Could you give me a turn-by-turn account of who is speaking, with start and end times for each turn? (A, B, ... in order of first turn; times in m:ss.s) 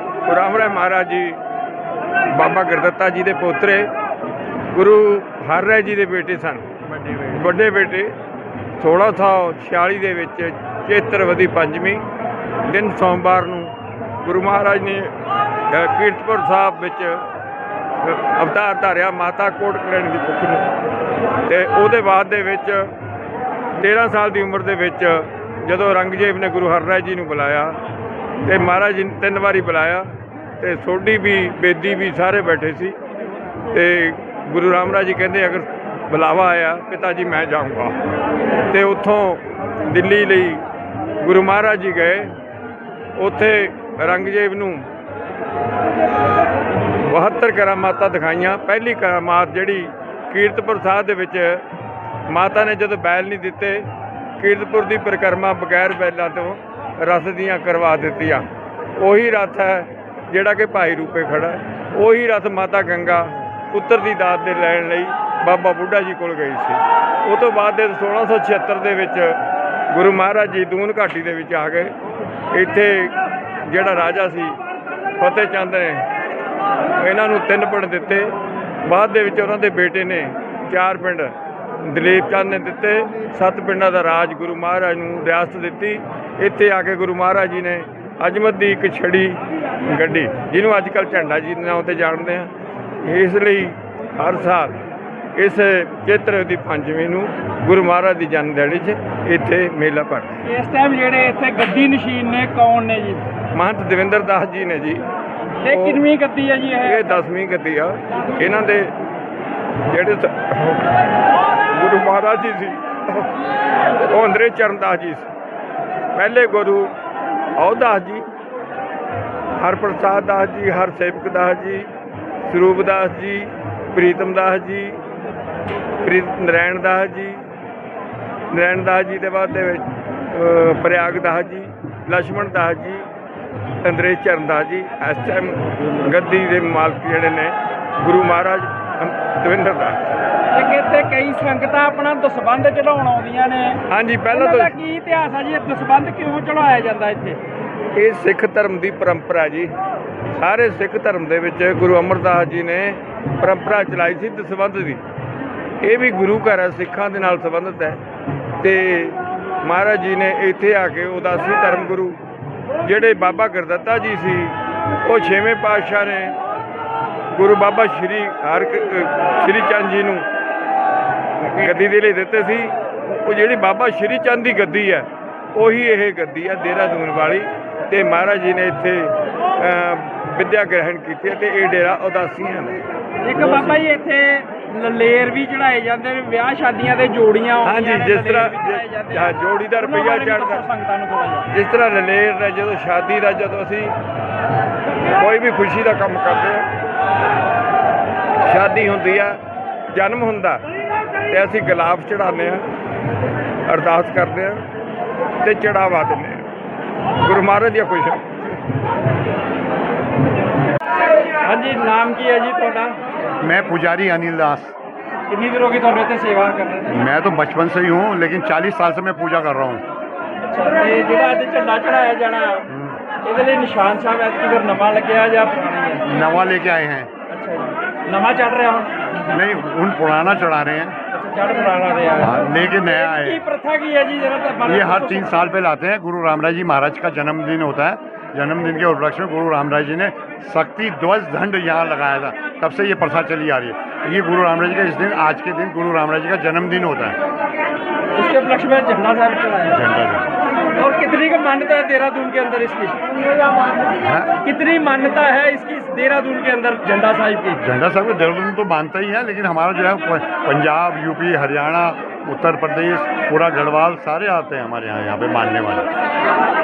0:00.2-0:01.4 A
0:02.3-0:03.9 A
0:04.7-0:08.1 A
0:08.8-0:12.0 A
0:12.6-0:15.1 A
0:15.7-0:17.2 A
0:18.0-0:20.7 A
0:21.5-0:22.9 A
0:23.8-0:27.8 A
0:28.4-0:33.0 A
0:33.7-0:38.0 A
0:38.7-0:40.6 A
0:41.2-0:42.3 A
0:43.2-0:44.9 A
0:47.0-0:51.6 A
0:52.3-0:53.9 A
0:54.4-1:09.4 A
1:09.9-1:11.9 A
1:12.5-1:14.6 A
1:15.2-1:16.1 A
1:17.0-1:34.8 A
1:35.4-1:40.4 A
1:40.4-1:43.2 B
1:43.5-1:45.0 A
1:45.6-1:47.2 B
1:45.6-1:46.0 A
1:46.8-1:48.9 A
1:49.9-1:50.9 A
1:51.7-1:53.3 A
1:54.0-1:55.3 A
1:56.1-1:56.9 A
1:57.6-1:58.2 A
1:59.6-2:01.9 A
2:02.5-2:05.0 A
2:06.0-2:07.5 A
2:08.5-2:13.0 A
2:13.8-2:20.0 A
2:20.5-2:27.4 B
2:23.9-2:24.8 A
2:27.9-2:29.7 A
2:30.4-2:35.0 A
2:35.8-2:38.0 A
2:38.6-2:42.2 A
2:42.8-2:46.4 A
2:47.3-2:50.2 A
2:51.4-3:02.8 A
3:03.2-3:11.5 B
3:03.4-3:03.8 A
3:07.6-3:10.6 A
3:11.5-3:13.9 A
3:15.1-3:16.7 A
3:18.4-3:19.4 A
3:19.9-3:20.6 A
3:21.3-3:22.6 A
3:23.7-3:24.6 A
3:25.4-3:26.4 A
3:27.2-3:28.4 A
3:31.4-3:33.0 B
3:33.4-3:34.7 C
3:35.3-3:37.0 B
3:36.9-3:39.8 C
3:40.4-3:42.7 B
3:42.7-3:43.0 C
3:43.2-3:46.0 B
3:46.0-3:47.1 C
3:47.3-3:49.0 B
3:49.3-3:51.0 C
3:51.1-3:55.4 B
3:52.2-3:53.4 C
3:54.6-4:07.2 C
4:08.1-4:09.8 B
4:09.7-4:10.3 C
4:10.7-4:13.1 B
4:14.0-4:14.3 C
4:14.4-4:17.6 B
4:17.6-4:25.9 C